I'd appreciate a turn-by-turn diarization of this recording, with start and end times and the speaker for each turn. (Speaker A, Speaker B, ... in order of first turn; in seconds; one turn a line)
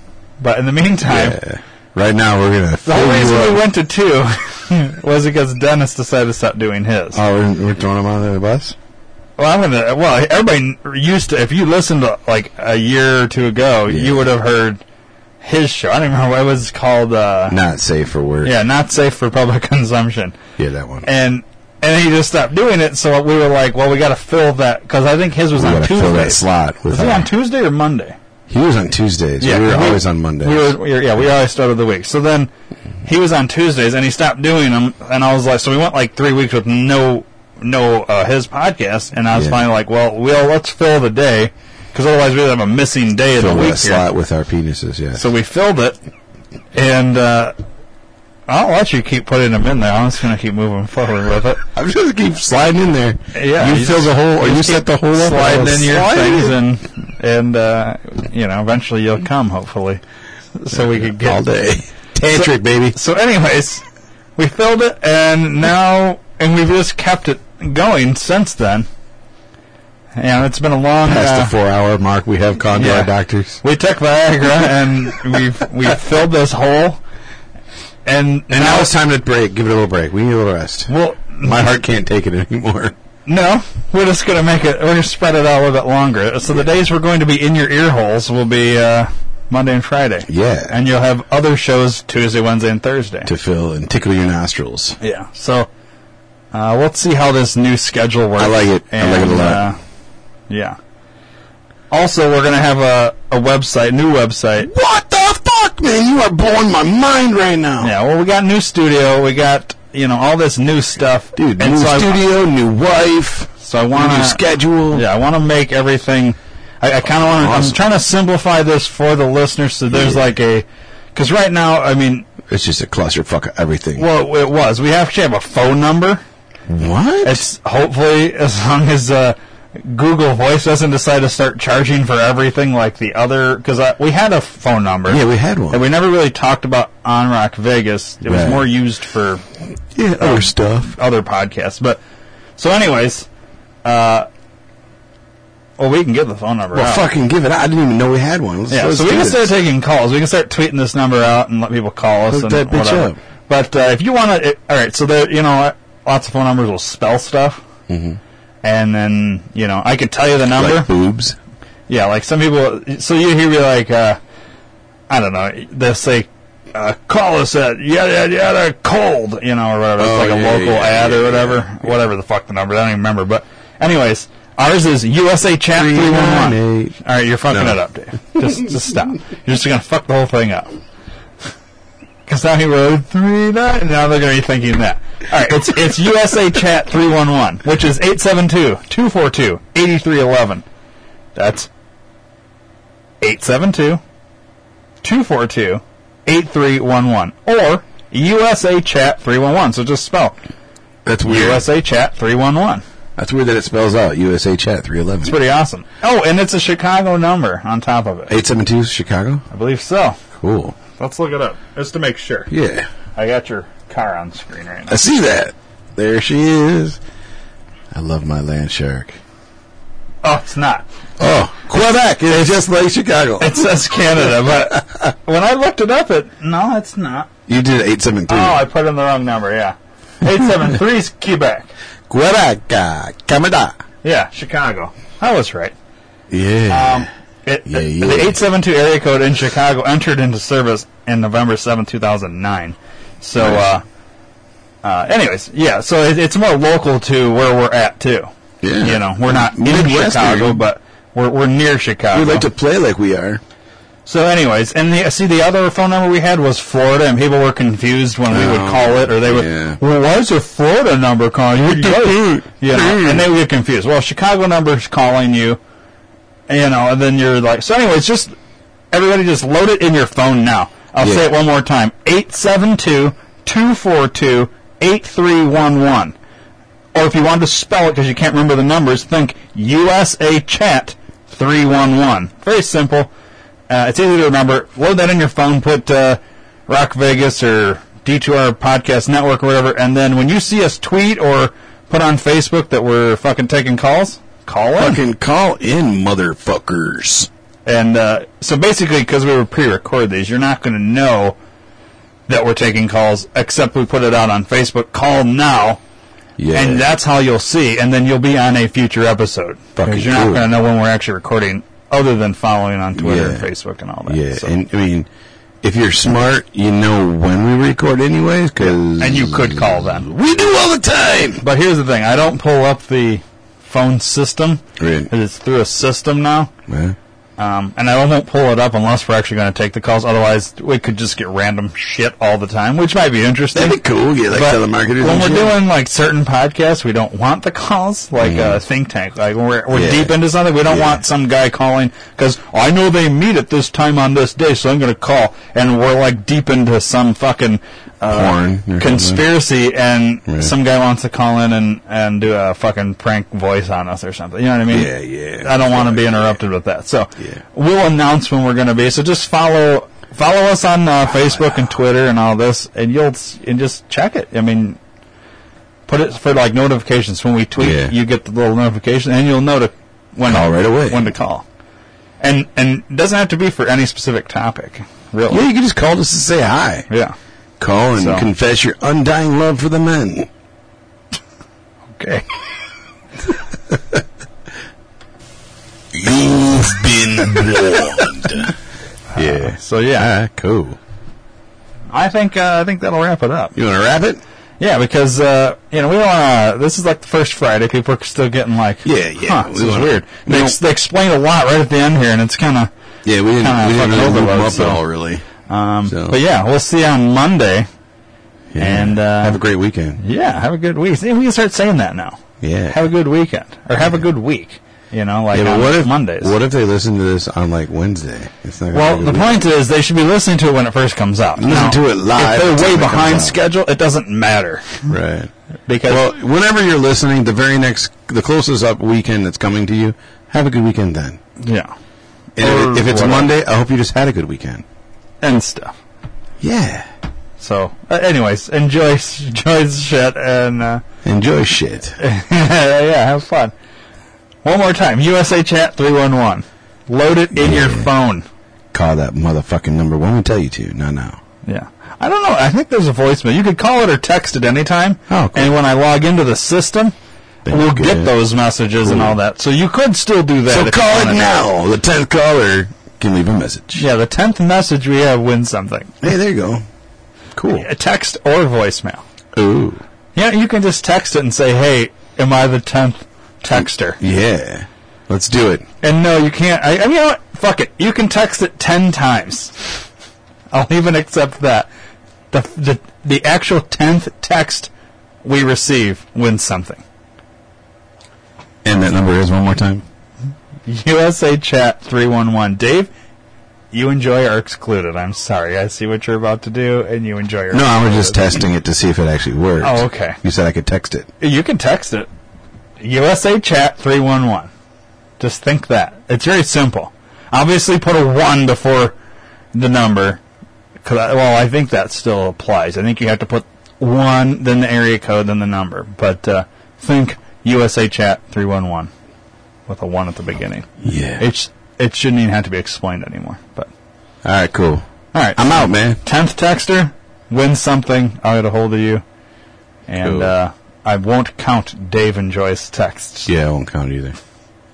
Speaker A: 0.4-1.4
Speaker B: 1.0-3.6
Speaker A: 2.8-7.2
Speaker B: 7.1-8.8
Speaker A: 9.4-14.8
Speaker B: 13.9-14.2
Speaker A: 15.4-17.6
Speaker B: 17.5-18.5
Speaker A: 18.4-20.4
Speaker B: 20.6-21.1
Speaker A: 21.0-28.2
Speaker B: 25.5-27.3
Speaker B: 28.5-30.7
Speaker A: 29.4-32.5
Speaker A: 33.0-44.0
Speaker B: 39.3-39.6
Speaker B: 43.4-45.2
Speaker A: 45.1-46.0
Speaker A: 46.7-47.5
Speaker A: 48.5-51.6
Speaker B: 51.7-56.5
Speaker A: 53.3-60.0
Speaker A: 60.5-61.5
Speaker B: 60.7-63.0
Speaker A: 62.3-63.8
Speaker A: 64.4-68.9
Speaker A: 70.2-71.5
Speaker B: 71.0-73.6
Speaker A: 72.7-77.0
Speaker A: 78.0-78.9
Speaker B: 78.5-80.9
Speaker A: 80.9-81.6
Speaker B: 81.4-82.9
Speaker A: 83.2-93.3
Speaker B: 90.2-90.8
Speaker B: 93.2-95.0
Speaker A: 95.0-95.7
Speaker A: 96.5-99.8
Speaker B: 98.4-99.7
Speaker A: 100.5-100.8
Speaker A: 101.9-104.7
Speaker B: 104.6-107.9
Speaker A: 107.8-112.2
Speaker B: 111.3-115.0
Speaker A: 113.6-122.2
Speaker B: 117.1-117.8
Speaker B: 119.9-120.2
Speaker B: 122.5-124.1
Speaker A: 124.0-126.2
Speaker B: 126.7-127.4
Speaker A: 127.2-139.4
Speaker B: 135.1-135.8
Speaker B: 138.2-138.6
Speaker B: 139.9-140.9
Speaker A: 140.2-142.0
Speaker A: 142.6-143.3
Speaker A: 143.8-144.3
Speaker A: 145.8-147.1
Speaker B: 146.7-149.5
Speaker A: 148.7-157.6
Speaker B: 152.3-153.2
Speaker B: 157.9-158.2
Speaker A: 158.6-160.9
Speaker B: 160.5-161.3
Speaker A: 161.9-164.2
Speaker A: 165.1-180.7
Speaker B: 170.0-172.0
Speaker B: 175.7-176.9
Speaker B: 177.5-177.8
Speaker A: 182.2-190.6
Speaker A: 191.3-191.7
Speaker A: 193.2-194.0
Speaker A: 195.0-200.4
Speaker B: 201.1-201.6
Speaker A: 201.2-202.8
Speaker B: 203.2-205.4
Speaker A: 205.2-208.3
Speaker B: 208.3-209.4
Speaker A: 209.5-210.2
Speaker B: 210.4-210.8
Speaker A: 210.9-212.5
Speaker B: 212.5-212.9
Speaker A: 213.2-215.0
Speaker B: 214.9-217.0
Speaker B: 217.9-219.2
Speaker A: 220.2-220.8
Speaker B: 221.2-223.6
Speaker A: 223.4-227.3
Speaker B: 227.5-228.6
Speaker A: 228.3-231.7
Speaker B: 232.1-233.8
Speaker A: 234.0-235.7
Speaker B: 236.3-237.1
Speaker A: 236.7-243.8
Speaker B: 237.7-238.3
Speaker B: 243.3-243.6
Speaker A: 244.8-252.5
Speaker B: 248.6-250.6
Speaker B: 252.1-253.4
Speaker A: 254.1-265.6
Speaker B: 258.3-259.8
Speaker B: 261.7-263.3
Speaker A: 266.5-268.3
Speaker A: 268.9-276.1
Speaker B: 271.0-271.3
Speaker A: 276.9-283.1
Speaker A: 283.7-295.0
Speaker B: 294.8-297.3
Speaker A: 297.6-301.4
Speaker A: 302.3-305.8
Speaker B: 306.4-306.9
Speaker A: 306.5-314.5
Speaker B: 309.8-310.4
Speaker B: 312.9-313.5
Speaker B: 314.1-315.1
Speaker B: 315.6-321.4
Speaker A: 318.6-320.1
Speaker A: 321.4-326.5
Speaker B: 324.8-325.1
Speaker B: 326.7-326.9
Speaker A: 327.4-333.8
Speaker B: 333.5-335.6
Speaker A: 334.3-364.8
Speaker B: 338.2-338.6
Speaker B: 339.7-340.1
Speaker B: 340.7-341.0
Speaker B: 348.1-349.2
Speaker B: 350.3-350.5
Speaker B: 354.7-356.4
Speaker A: 365.9-371.4
Speaker B: 367.6-367.9
Speaker B: 370.2-371.1
Speaker A: 372.2-375.4
Speaker B: 375.3-376.9
Speaker A: 376.9-377.1
Speaker B: 377.6-380.3
Speaker A: 377.9-378.3
Speaker A: 381.9-382.2
Speaker B: 383.7-384.0
Speaker B: 385.9-388.5
Speaker A: 389.1-390.1
Speaker B: 389.1-390.8
Speaker A: 391.9-393.5
Speaker B: 393.5-394.2
Speaker A: 394.6-402.7
Speaker B: 398.8-400.6
Speaker B: 403.0-405.2
Speaker A: 403.4-404.8
Speaker A: 405.5-407.7
Speaker B: 405.9-406.2
Speaker B: 408.5-410.0
Speaker A: 408.6-409.4
Speaker A: 410.0-416.3
Speaker B: 412.4-412.8
Speaker B: 415.3-419.4
Speaker A: 418.7-424.9
Speaker B: 421.4-423.4
Speaker B: 424.9-425.3
Speaker A: 425.7-426.1
Speaker B: 425.9-431.2
Speaker A: 431.4-431.7
Speaker A: 432.4-433.3
Speaker B: 432.4-434.6
Speaker A: 435.2-435.8
Speaker B: 436.4-436.9
Speaker A: 437.4-440.8
Speaker B: 441.0-442.0
Speaker A: 442.0-443.5
Speaker A: 444.4-448.2
Speaker B: 447.3-447.9
Speaker B: 448.7-451.2
Speaker A: 451.4-456.9
Speaker B: 455.1-455.5
Speaker B: 457.4-458.1
Speaker A: 457.5-461.4
Speaker B: 458.8-459.1
Speaker B: 460.5-463.8
Speaker A: 463.7-466.0
Speaker B: 466.0-466.6
Speaker B: 467.3-467.7
Speaker A: 467.5-469.0
Speaker B: 469.3-469.8
Speaker A: 470.1-474.0
Speaker B: 473.6-475.6
Speaker A: 475.8-479.6
Speaker A: 480.5-481.7
Speaker A: 482.3-484.7
Speaker A: 485.2-486.8
Speaker B: 488.6-489.8
Speaker A: 490.6-492.9
Speaker A: 493.7-498.4
Speaker B: 497.5-501.1
Speaker A: 499.6-500.2
Speaker A: 501.2-502.1
Speaker A: 502.8-504.5
Speaker A: 505.2-508.9
Speaker A: 509.5-510.2
Speaker A: 510.8-518.9
Speaker A: 519.7-523.7
Speaker B: 520.8-521.3
Speaker B: 524.2-526.0
Speaker A: 525.1-529.0
Speaker A: 529.9-533.3
Speaker B: 530.0-530.3
Speaker B: 533.2-534.1